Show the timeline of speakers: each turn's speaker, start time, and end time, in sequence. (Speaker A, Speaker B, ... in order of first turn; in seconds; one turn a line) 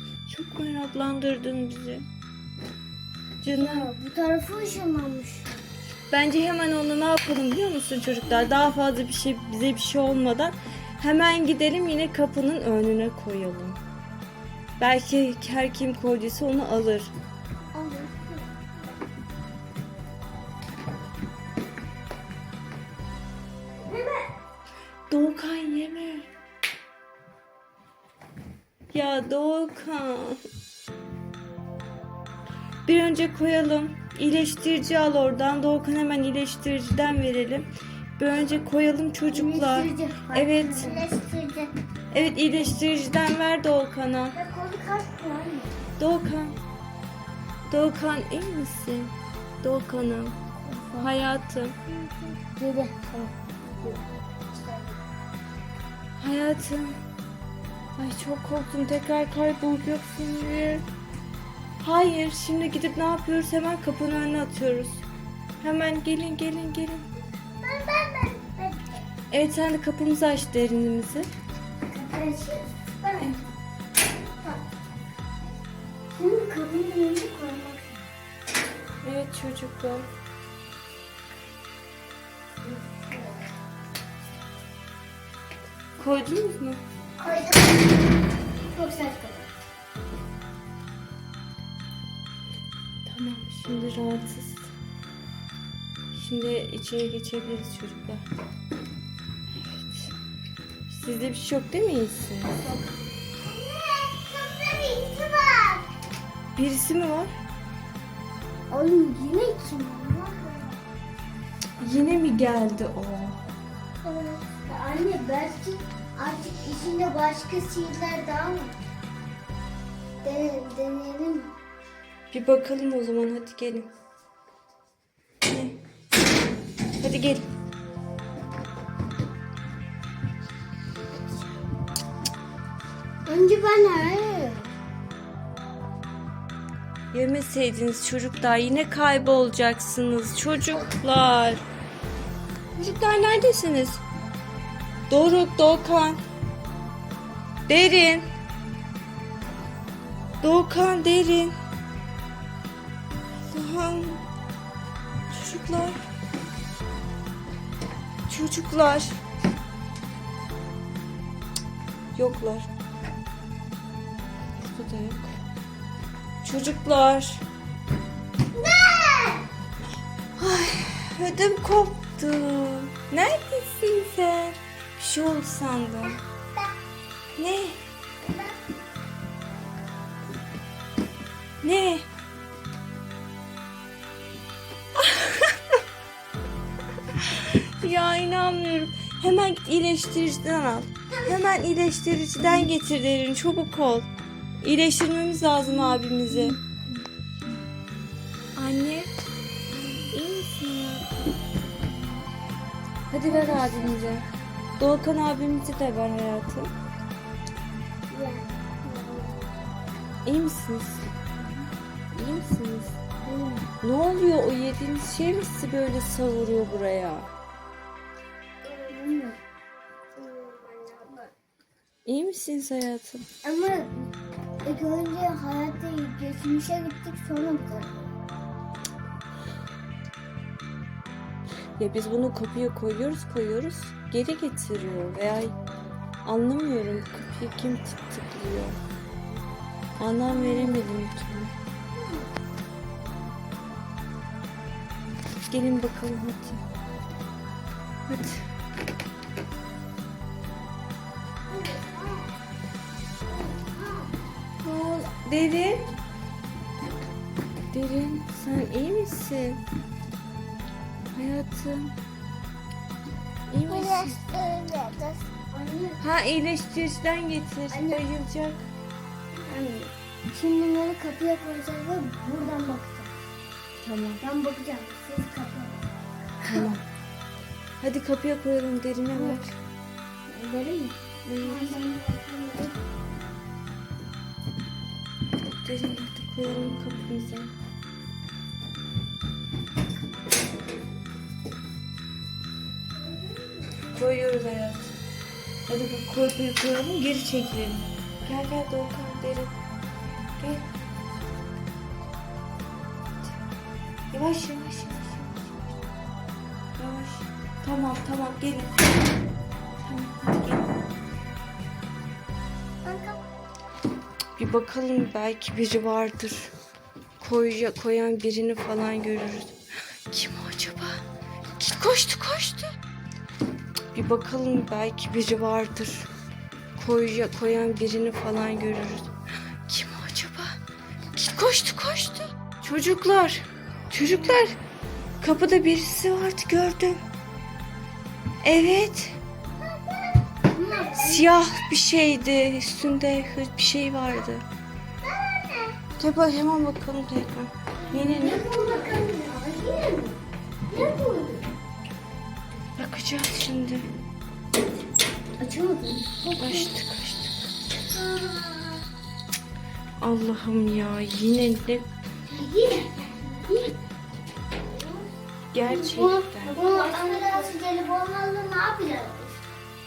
Speaker A: 0.3-2.1
Speaker A: 3.4-3.9
Speaker B: 3.5-5.6
Speaker A: 6.1-13.8
Speaker A: 14.8-17.1
Speaker B: 17.7-18.9
Speaker B: 23.9-24.3
Speaker A: 25.1-26.3
Speaker A: 28.9-30.4
Speaker A: 32.9-41.1
Speaker B: 39.3-42.7
Speaker A: 42.1-44.4
Speaker B: 44.3-45.8
Speaker A: 46.0-46.6
Speaker A: 47.7-50.4
Speaker B: 50.6-51.2
Speaker A: 51.0-51.8
Speaker B: 51.9-55.0
Speaker A: 56.2-57.0
Speaker A: 58.0-60.8
Speaker A: 61.8-65.0
Speaker A: 65.6-67.1
Speaker B: 67.6-69.1
Speaker A: 69.3-71.3
Speaker B: 71.9-73.4
Speaker B: 76.1-78.1
Speaker A: 79.0-80.1
Speaker B: 82.6-83.5
Speaker A: 86.0-86.8
Speaker B: 87.2-89.5
Speaker A: 93.0-94.7
Speaker A: 96.1-98.3
Speaker A: 99.7-100.1
Speaker A: 100.9-102.7
Speaker B: 102.6-105.9
Speaker A: 106.6-107.3
Speaker B: 108.7-110.8
Speaker A: 111.8-113.4
Speaker B: 114.0-118.8
Speaker B: 120.2-121.5
Speaker A: 122.3-123.9
Speaker A: 125.4-125.8
Speaker A: 127.0-127.5
Speaker B: 133.3-134.7
Speaker A: 137.1-141.6
Speaker A: 142.8-144.0
Speaker A: 145.1-146.2
Speaker A: 147.7-148.3
Speaker A: 150.4-151.5
Speaker A: 153.5-154.2
Speaker A: 155.3-156.0
Speaker A: 158.3-159.1
Speaker A: 162.2-162.7
Speaker A: 164.6-165.3
Speaker A: 166.4-167.4
Speaker B: 168.5-169.5
Speaker A: 170.4-176.2
Speaker A: 177.4-177.8
Speaker B: 178.3-178.6
Speaker A: 181.6-182.1
Speaker A: 184.9-185.6
Speaker A: 187.2-194.1
Speaker A: 194.6-196.6
Speaker B: 196.3-196.6
Speaker A: 198.6-199.3
Speaker A: 200.1-201.3
Speaker B: 201.8-202.3
Speaker A: 203.1-204.3
Speaker B: 203.3-204.2
Speaker A: 204.8-206.7
Speaker B: 208.1-209.4
Speaker A: 210.2-211.1
Speaker A: 212.1-213.0
Speaker B: 213.2-213.7
Speaker A: 213.8-217.3
Speaker B: 218.7-219.4
Speaker B: 220.2-221.3
Speaker A: 222.1-223.2
Speaker B: 223.4-224.1
Speaker B: 224.6-228.2
Speaker A: 231.8-235.5
Speaker A: 236.2-238.8
Speaker A: 240.0-241.5
Speaker B: 240.3-240.9
Speaker B: 241.9-242.3
Speaker A: 245.5-246.6
Speaker A: 248.1-248.5
Speaker B: 251.5-252.3
Speaker B: 253.3-254.2
Speaker A: 254.6-255.9
Speaker A: 257.7-259.6
Speaker A: 261.1-261.9
Speaker A: 263.5-264.2
Speaker B: 263.7-266.0
Speaker A: 266.0-268.7
Speaker B: 267.7-268.0
Speaker B: 269.4-273.1
Speaker A: 273.8-274.2
Speaker B: 274.2-275.9
Speaker A: 276.4-276.8
Speaker A: 277.8-279.5
Speaker B: 279.1-279.4
Speaker B: 280.3-282.8
Speaker A: 281.3-281.8
Speaker A: 285.6-287.5
Speaker B: 293.1-293.6
Speaker A: 293.9-294.9
Speaker A: 295.7-299.6
Speaker A: 300.4-300.7
Speaker A: 304.1-305.4
Speaker A: 306.8-309.0
Speaker A: 309.8-310.7
Speaker B: 312.8-313.2
Speaker A: 314.4-316.5
Speaker A: 317.2-319.6
Speaker A: 320.1-321.0
Speaker A: 321.6-322.8
Speaker A: 323.9-326.1
Speaker A: 326.8-329.1
Speaker A: 329.7-330.6
Speaker A: 331.1-334.6
Speaker B: 334.2-334.6
Speaker A: 335.2-337.0
Speaker A: 338.4-339.2
Speaker B: 339.6-341.3
Speaker A: 341.0-344.4
Speaker B: 345.0-345.8
Speaker A: 346.0-348.5
Speaker B: 347.9-351.5
Speaker A: 352.8-353.9
Speaker B: 355.4-356.7
Speaker A: 356.4-357.5
Speaker B: 357.9-358.9
Speaker A: 360.0-361.9
Speaker B: 362.3-363.8
Speaker B: 364.7-365.1
Speaker A: 365.5-366.6
Speaker B: 365.6-369.5